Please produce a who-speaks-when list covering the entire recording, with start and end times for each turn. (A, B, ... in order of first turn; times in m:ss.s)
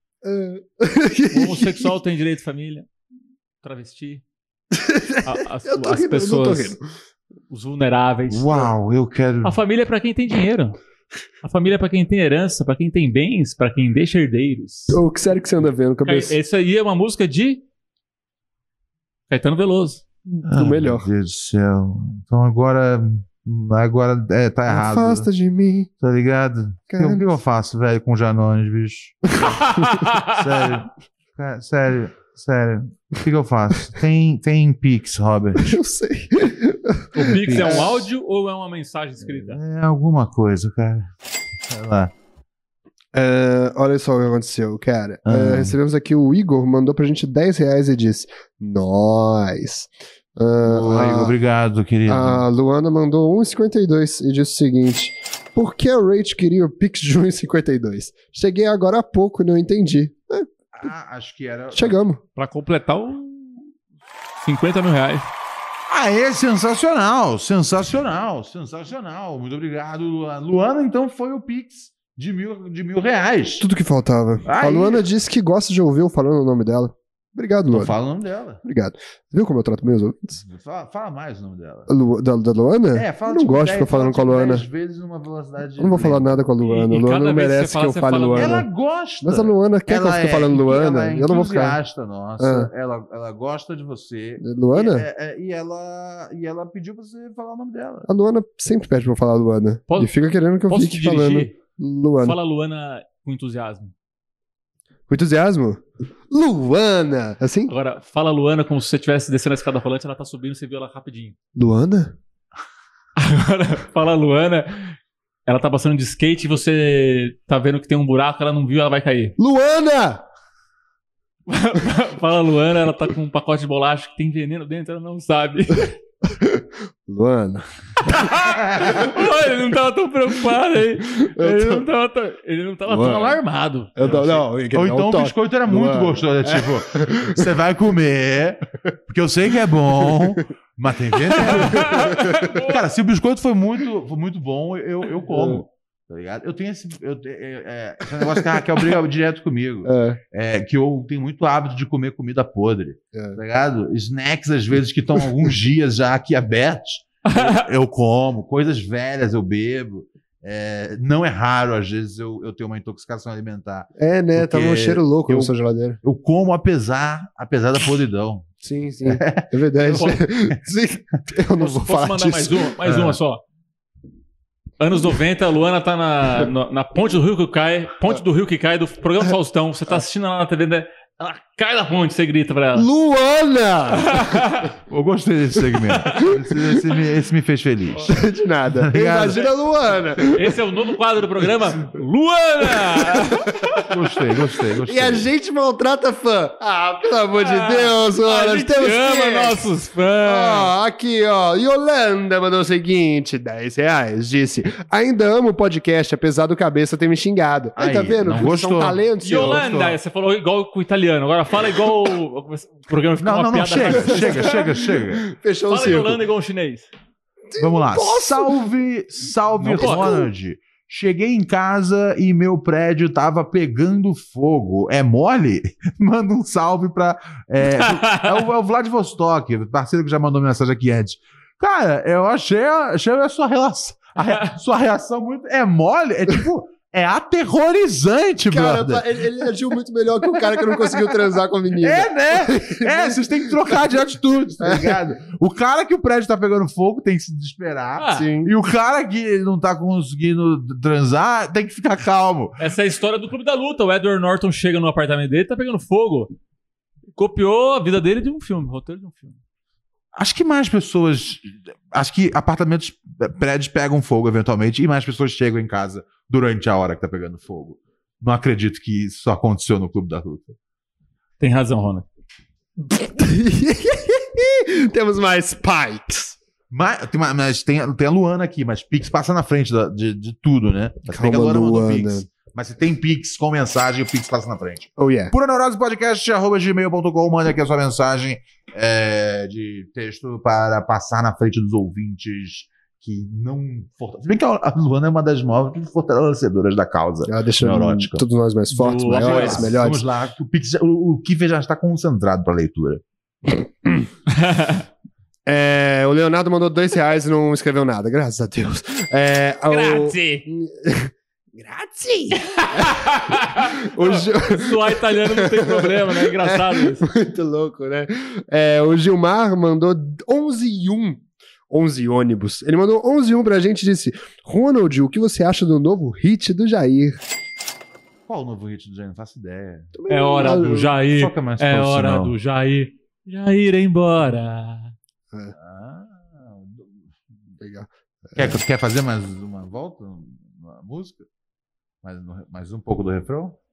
0:00.2-0:02.0 A
0:01.3-0:02.9 B
0:03.6-0:04.2 B
0:04.7-0:06.8 A
0:05.2-0:06.8 B
0:07.5-0:08.7 B
0:08.3-0:09.6 C
0:09.4-0:10.8 B
0:11.4-0:15.0 B
0:14.9-0:16.4 A
0:16.0-0:17.6 B
0:19.3-0:20.0 B
0:20.3-0:21.1 A
0:20.4-0:25.3 C
0:24.7-0:25.9 A
0:26.0-0:29.5 C
0:26.9-0:27.2 A
0:29.4-0:29.9 A
0:29.4-0:30.4 B
0:30.2-0:35.8 C
0:35.6-0:38.0 A
0:37.1-0:39.6 B
0:37.4-0:38.0 C
0:39.2-0:41.1 C
0:41.7-0:42.1 C
0:43.1-0:51.3 A
0:45.2-0:45.7 C
0:50.6-0:52.4 C
0:52.1-1:00.5 A
1:00.7-1:02.0 C
1:01.7-1:02.2 A
1:02.4-1:03.6 B
1:04.4-1:05.3 B
1:05.9-1:13.6 C
1:13.6-1:17.9 A
1:14.4-1:15.0 C
1:17.7-1:18.6 C
1:18.6-1:20.4 A
1:20.4-1:21.9 C
1:21.9-1:24.6 A
1:22.9-1:26.4 C
1:25.8-1:28.7 A
1:26.6-1:28.6 B
1:28.3-1:38.1 C
1:29.2-1:31.8 A
1:32.4-1:32.7 A
1:34.4-1:35.1 A
1:38.1-1:42.4 A
1:40.7-1:41.5 B
1:42.2-1:43.9 B
1:45.1-1:47.7 A
1:47.7-1:51.4 B
1:51.6-1:52.2 A
1:53.2-1:54.9 B
1:55.5-1:59.3 B
1:59.4-2:00.2 A
2:01.5-2:05.9 B
2:06.2-2:07.6 A
2:08.0-2:14.2 B
2:08.6-2:09.1 C
2:11.2-2:11.8 A
2:12.8-2:13.4 A
2:14.0-2:17.5 A
2:14.0-2:48.5 C
2:20.0-2:20.4 A
2:21.3-2:22.8 B
2:21.8-2:22.4 A
2:25.3-2:25.6 A
2:29.8-2:30.2 A
2:33.1-2:33.4 A
2:37.2-2:37.6 B
2:44.0-2:46.0 A
2:48.6-2:52.7 A
2:49.0-2:50.6 C
2:51.6-2:53.4 B
2:52.8-2:53.2 C
2:54.8-3:02.9 B
3:02.7-3:04.4 A
3:04.0-3:04.7 B
3:04.9-3:08.1 C
3:05.9-3:06.2 B
3:06.2-3:06.8 A
3:08.0-3:10.6 A
3:08.8-3:09.5 C
3:10.2-3:13.8 B
3:12.8-3:13.7 A
3:13.8-3:15.3 C
3:14.8-3:19.6 A
3:17.4-3:20.7 B
3:20.2-3:29.6 A
3:27.8-3:30.0 C
3:29.2-3:34.6 B
3:33.2-3:35.3 C
3:33.9-3:36.2 A
3:35.7-3:36.9 B
3:37.5-3:38.6 A
3:37.6-3:59.4 C
3:39.6-3:40.1 B
3:39.7-3:40.3 A
3:47.8-3:48.3 B
3:58.5-4:04.0 A
4:00.3-4:12.6 C
4:04.6-4:05.0 A
4:08.0-4:08.3 B
4:08.1-4:08.5 A
4:12.6-4:16.3 B
4:17.2-4:19.4 B
4:20.1-4:30.6 C
4:31.4-4:32.0 B
4:32.9-4:36.4 A
4:36.7-4:58.2 C
4:41.1-4:42.2 A
4:45.0-4:45.3 A
4:57.3-5:00.0 A
4:58.7-4:59.7 B
4:59.1-5:03.0 C
5:03.5-5:04.1 A
5:04.3-5:04.8 B
5:05.4-5:27.2 A
5:09.7-5:10.4 B
5:12.4-5:17.1 B
5:28.3-5:32.3 C
5:29.9-5:30.9 A
5:30.1-5:34.9 B
5:35.6-5:36.9 C
5:37.6-5:38.6 A
5:38.4-5:41.2 C
5:42.0-5:43.6 C